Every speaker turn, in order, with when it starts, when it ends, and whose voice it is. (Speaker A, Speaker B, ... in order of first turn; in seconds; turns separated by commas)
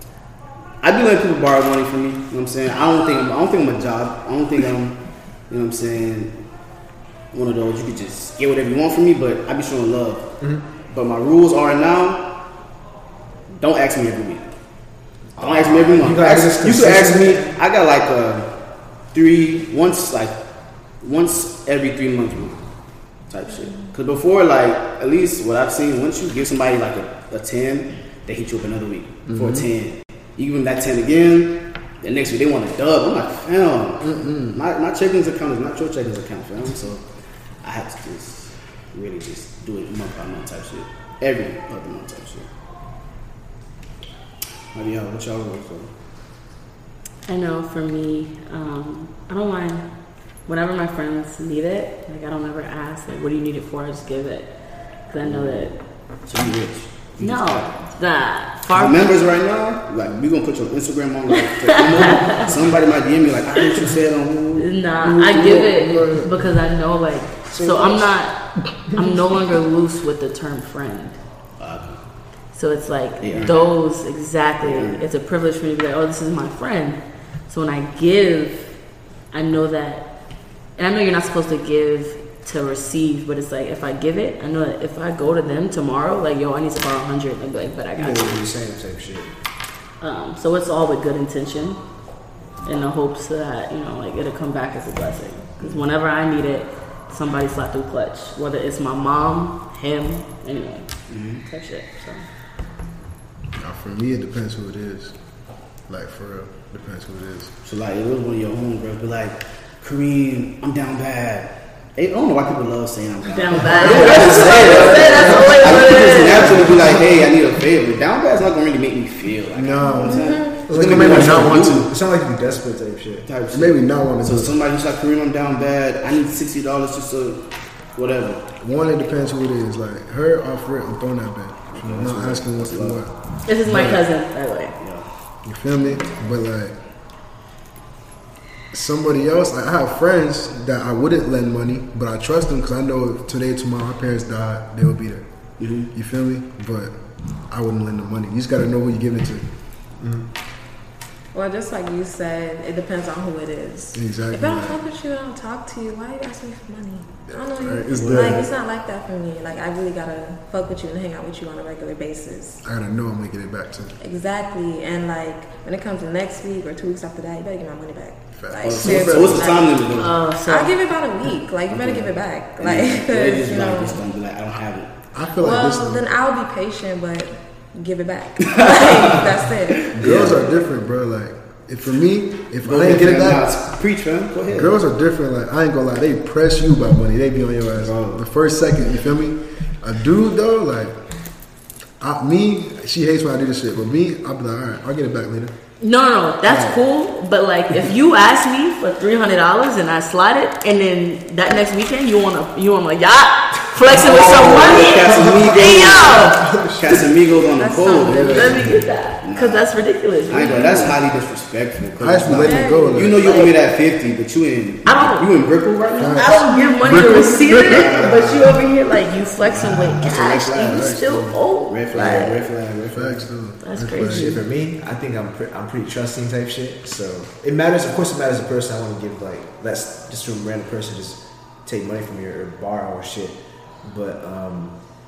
Speaker A: 0.8-5.0, Speaker A: 5.5-6.3, Speaker A: 7.3-10.3, Speaker A: 10.9-12.3, Speaker A: 13.5-14.5, Speaker B: 15.4-17.5, Speaker A: 15.4-18.5, Speaker A: 19.1-20.4, Speaker A: 21.0-22.7, Speaker A: 23.3-37.0, Speaker C: 29.3-29.7, Speaker C: 34.0-34.6, Speaker A: 37.6-42.5, Speaker A: 44.7-45.9, Speaker D: 47.3-49.9, Speaker D: 50.5-54.5, Speaker D: 55.1-55.7, Speaker A: 55.2-55.7, Speaker A: 56.3-57.7, Speaker D: 57.2-59.1, Speaker A: 58.7-64.8, Speaker D: 61.8-62.4, Speaker D: 64.6-71.2, Speaker C: 65.0-66.4, Speaker B: 67.5-68.1, Speaker A: 71.6-72.0, Speaker D: 72.5-78.7, Speaker A: 73.2-73.6, Speaker A: 74.6-75.1, Speaker D: 79.3-80.1, Speaker D: 80.8-88.5, Speaker B: 88.0-89.3, Speaker D: 90.0-91.8, Speaker D: 92.6-100.9, Speaker A: 101.1-101.4, Speaker D: 101.4-102.2, Speaker C: 103.5-105.2, Speaker C: 105.9-107.5, Speaker A: 107.6-121.9, Speaker D: 113.3-116.7, Speaker B: 113.9-115.2, Speaker C: 115.1-115.6, Speaker C: 116.4-116.9, Speaker C: 119.5-121.9, Speaker E: 119.8-120.7, Speaker B: 120.7-123.3, Speaker A: 123.3-127.4, Speaker C: 123.5-124.6, Speaker A: 128.0-128.5, Speaker C: 128.6-133.1, Speaker A: 131.7-133.0, Speaker D: 133.5-134.8, Speaker C: 133.7-134.0, Speaker A: 134.8-135.1, Speaker C: 135.4-136.8, Speaker C: 138.7-145.2, Speaker A: 145.6-145.9, Speaker C: 145.9-147.0, Speaker C: 147.5-149.4, Speaker B: 150.0-150.3, Speaker E: 151.3-162.6, Speaker C: 153.9-154.8, Speaker C: 157.3-158.5, Speaker A: 157.9-158.3, Speaker C: 162.6-164.0, Speaker E: 164.0-169.9, Speaker C: 168.3-169.5, Speaker A: 168.6-170.2, Speaker D: 169.7-170.7, Speaker E: 170.4-174.0, Speaker A: 171.7-174.9, Speaker C: 175.1-176.1, Speaker E: 175.3-179.9, Speaker A: 178.5-179.3, Speaker A: 179.8-180.6, Speaker C: 179.9-183.5, Speaker A: 182.6-184.8, Speaker C: 184.5-191.0, Speaker A: 187.8-188.2, Speaker C: 192.0-195.5, Speaker D: 195.8-206.4, Speaker C: 196.5-196.8, Speaker A: 203.9-209.7, Speaker C: 206.4-207.0, Speaker E: 207.6-208.7, Speaker C: 208.1-208.8, Speaker D: 208.2-211.0, Speaker A: 210.3-216.4, Speaker C: 212.0-213.3, Speaker E: 212.4-213.1, Speaker D: 213.2-213.6, Speaker D: 214.9-215.3, Speaker C: 216.0-218.0, Speaker D: 216.1-222.4, Speaker A: 217.6-218.6, Speaker A: 219.4-221.0, Speaker C: 220.6-221.4, Speaker A: 221.7-223.3, Speaker C: 222.9-224.3, Speaker D: 223.6-224.4, Speaker B: 224.0-234.8